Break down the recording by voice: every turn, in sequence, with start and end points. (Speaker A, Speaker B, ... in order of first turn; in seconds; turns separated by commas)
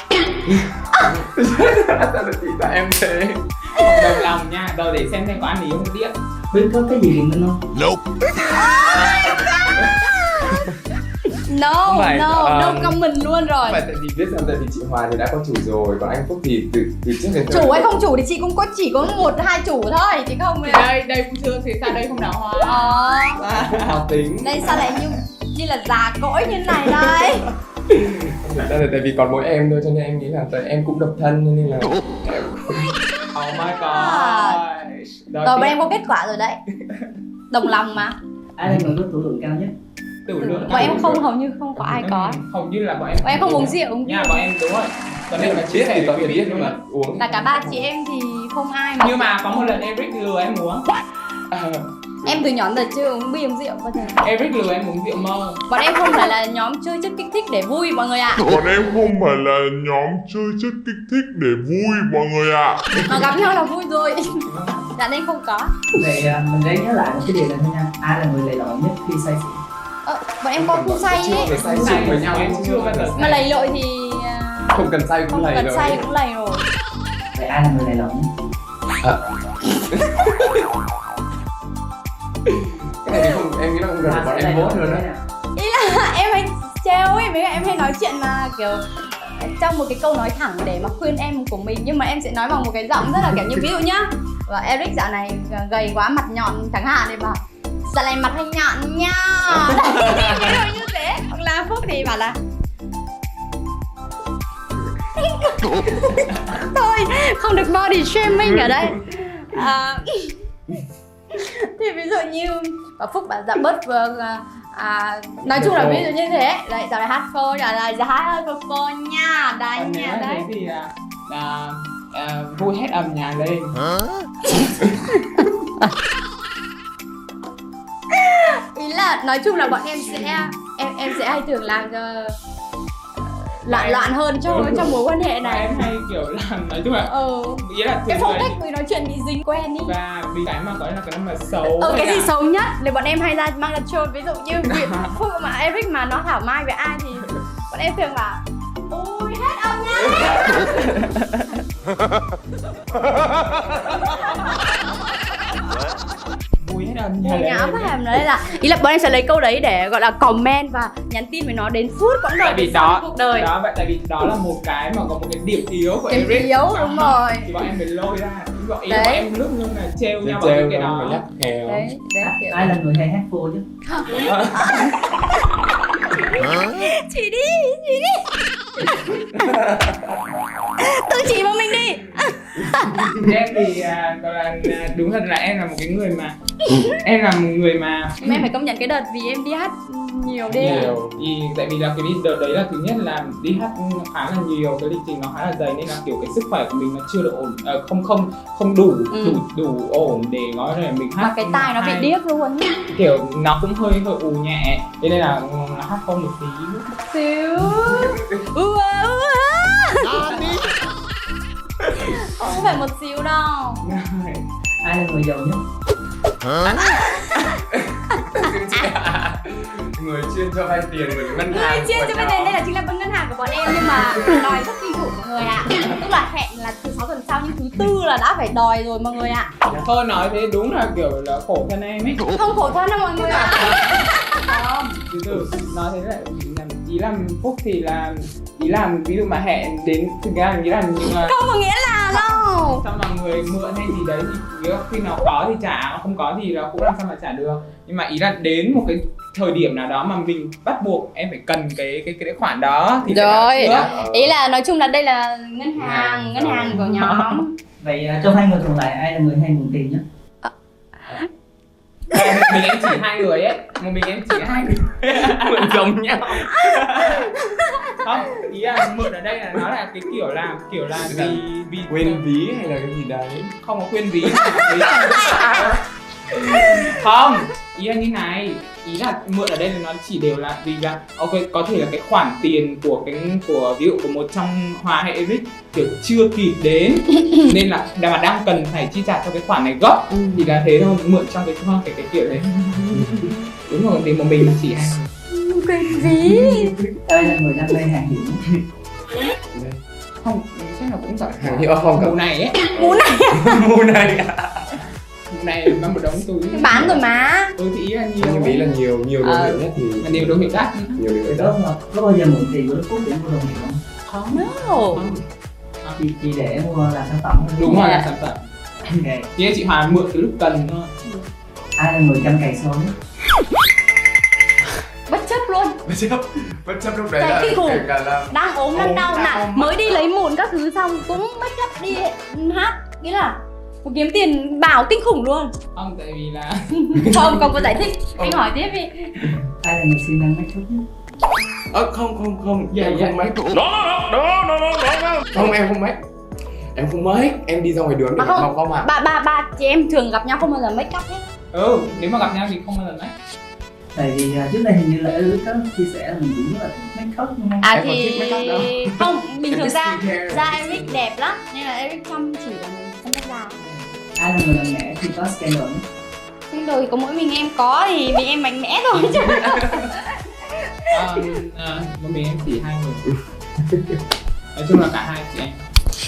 Speaker A: 0.5-3.4, Speaker B: 3.7-6.1, Speaker C: 3.8-4.1, Speaker D: 6.5-7.6, Speaker C: 8.4-10.0, Speaker C: 11.4-13.8, Speaker A: 11.8-13.0, Speaker A: 13.6-17.9, Speaker C: 17.5-20.9, Speaker B: 20.6-24.0, Speaker C: 22.6-23.4, Speaker A: 23.5-25.0, Speaker C: 24.4-27.5, Speaker A: 26.9-27.3, Speaker A: 27.9-32.9, Speaker B: 33.3-35.8, Speaker C: 33.7-34.6, Speaker C: 35.4-36.6, Speaker B: 36.8-37.1, Speaker C: 37.5-38.1, Speaker D: 38.6-39.7, Speaker B: 40.2-41.1, Speaker C: 40.4-42.4, Speaker A: 40.7-41.2, Speaker B: 42.0-46.8, Speaker C: 43.2-44.5, Speaker A: 45.3-47.9, Speaker C: 47.2-49.4, Speaker B: 49.0-50.9, Speaker A: 51.5-52.4, Speaker C: 52.2-54.2, Speaker B: 54.2-55.6, Speaker C: 55.7-58.4, Speaker E: 58.4-63.1, Speaker C: 63.0-64.4, Speaker B: 64.3-64.9, Speaker C: 64.9-65.7, Speaker D: 65.9-69.6, Speaker C: 70.0-72.5, Speaker A: 70.5-73.4, Speaker B: 71.4-73.6, Speaker C: 73.1-76.7, Speaker A: 74.7-76.0, Speaker D: 77.3-78.3, Speaker A: 79.8-80.6, Speaker A: 82.6-85.0, Speaker C: 83.1-83.3, Speaker D: 84.0-85.2, Speaker C: 85.5-102.4, Speaker C: 105.2-110.3, Speaker C: 111.3-120.5, Speaker A: 115.4-116.1, Speaker B: 119.8-123.8, Speaker C: 125.1-125.4, Speaker C: 128.1-132.3, Speaker C: 133.6-135.8, Speaker B: 133.7-138.6, Speaker C: 137.1-139.9, Speaker B: 139.8-142.3, Speaker C: 141.8-150.9, Speaker B: 144.7-145.1, Speaker B: 150.3-151.6, Speaker B: 156.6-158.0, Speaker C: 157.2-163.5, Speaker B: 162.4-171.2, Speaker C: 166.1-167.5, Speaker C: 168.9-169.3, Speaker A: 170.2-171.9, Speaker C: 171.7-172.8, Speaker D: 172.2-173.7, Speaker C: 173.8-175.1, Speaker A: 174.2-174.8, Speaker C: 176.1-178.2, Speaker C: 178.8-179.3, Speaker A: 179.3-180.1, Speaker C: 180.8-183.1, Speaker B: 183.1-186.3, Speaker C: 186.6-186.9, Speaker B: 186.9-188.4, Speaker C: 188.2-190.9, Speaker A: 190.5-191.2, Speaker B: 190.5-202.1, Speaker C: 199.1-199.4, Speaker C: 201.2-202.8, Speaker B: 202.9-206.9, Speaker C: 207.1-210.7, Speaker A: 207.7-208.4, Speaker C: 212.0-213.8, Speaker B: 213.8-214.5, Speaker D: 214.8-215.6, Speaker C: 216.6-217.5, Speaker A: 217.7-222.6, Speaker C: 221.4-229.5, Speaker B: 229.8-232.2, Speaker C: 232.3-234.9, Speaker B: 233.2-233.8, Speaker B: 234.5-241.3, Speaker C: 241.1-242.8, Speaker B: 242.1-253.9, Speaker A: 253.0-254.3, Speaker C: 253.1-257.5, Speaker A: 255.8-257.0, Speaker D: 257.8-260.0, Speaker B: 262.1-265.8, Speaker A: 265.1-267.1, Speaker B: 266.7-267.3, Speaker C: 266.7-267.8, Speaker B: 268.0-272.2, Speaker A: 271.0-273.5, Speaker B: 273.6-275.8, Speaker A: 274.3-275.7, Speaker B: 276.6-295.1, Speaker C: 290.1-290.4, Speaker A: 293.0-293.2, Speaker C: 295.3-296.8, Speaker D: 297.0-298.4, Speaker A: 299.5-299.8, Speaker B: 300.2-302.7, Speaker A: 301.4-302.2, Speaker A: 302.7-304.8, Speaker C: 302.8-303.6, Speaker B: 305.3-307.0, Speaker C: 306.5-307.5, Speaker B: 307.6-308.7, Speaker A: 308.2-311.5, Speaker C: 309.2-309.5, Speaker B: 310.0-311.0, Speaker D: 311.3-313.8, Speaker B: 314.1-315.2, Speaker C: 314.3-315.1, Speaker D: 316.0-318.0, Speaker B: 317.6-320.9, Speaker C: 317.7-318.0, Speaker D: 319.0-319.3, Speaker D: 321.8-322.9, Speaker C: 325.1-325.8, Speaker A: 325.9-330.0, Speaker C: 327.2-335.5, Speaker B: 335.7-337.4, Speaker C: 336.7-339.2, Speaker A: 338.2-338.5, Speaker D: 339.6-340.8, Speaker A: 341.7-346.0, Speaker B: 342.7-343.2, Speaker A: 346.7-348.9, Speaker C: 348.2-351.3, Speaker B: 351.5-353.1, Speaker D: 353.9-357.7, Speaker C: 357.6-363.6, Speaker A: 357.7-361.0, Speaker B: 363.6-363.9, Speaker D: 364.2-365.8, Speaker C: 366.5-370.7, Speaker A: 369.4-369.9, Speaker B: 370.9-373.1, Speaker B: 374.5-375.6